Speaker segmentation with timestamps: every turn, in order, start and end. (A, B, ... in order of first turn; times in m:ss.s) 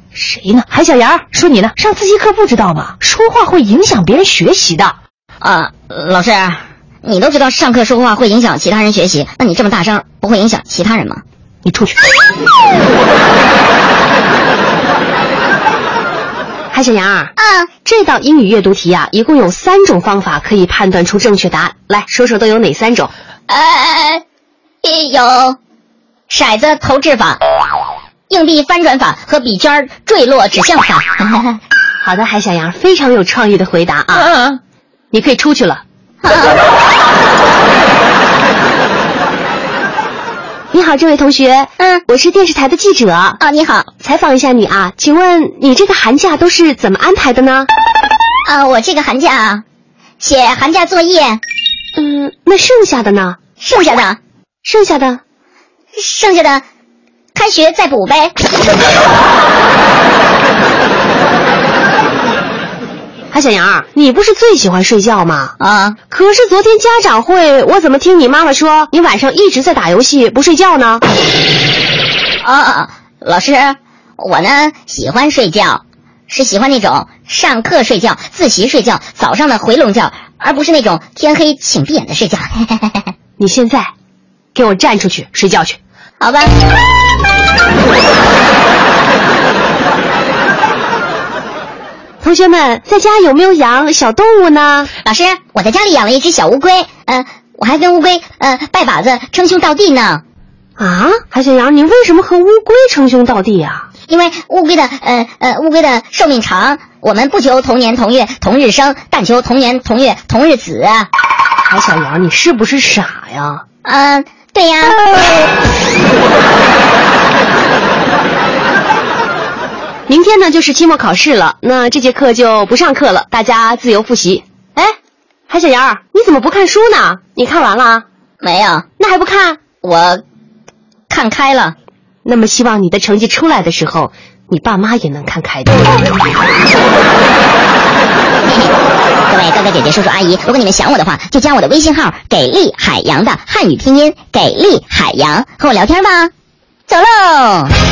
0:00.1-0:04.9 A
0:05.4-0:11.2 B
0:11.6-0:12.0 A
0:16.7-0:17.3 A
0:17.4-0:17.7 B
0:17.8-0:23.1 A
0:23.5-0:24.2 B
0:24.8-0:25.6 B
0:26.3-0:27.4 B
0:28.3-0:31.5 B
0:32.0-0:34.4 A
0:35.1-0:35.8 A
0:36.2-0:36.6 B
0:40.7-0:43.4 A
0:43.4-0:43.9 B
0:44.0-0:47.7 A
0:48.4-0:49.6 B
0:50.2-0:51.4 B
0:52.0-0:53.4 A
0:53.6-0:54.2 B
0:54.6-0:55.2 A
0:56.0-0:56.6 B
0:57.3-0:58.3 B
1:03.3-1:05.5 A
1:05.6-1:06.0 B
1:06.1-1:11.0 A
1:12.4-1:23.1 B
1:23.4-1:23.9 A
1:24.5-1:25.8 A
1:26.2-1:26.5 B
1:32.2-1:34.9 A
1:35.0-1:40.2 B
1:40.8-1:43.9 A
1:44.1-1:51.1 B
1:51.6-1:53.6 A
1:53.8-1:55.4 B
2:00.1-2:04.9 A
2:05.5-2:08.0 A
2:08.4-2:08.8 B
2:09.0-2:09.6 A
2:09.8-2:10.2 B
2:11.1-2:11.7 B
2:12.2-2:16.0 A
2:18.4-2:18.8 B
2:19.3-2:26.3 B
2:26.9-2:27.7 B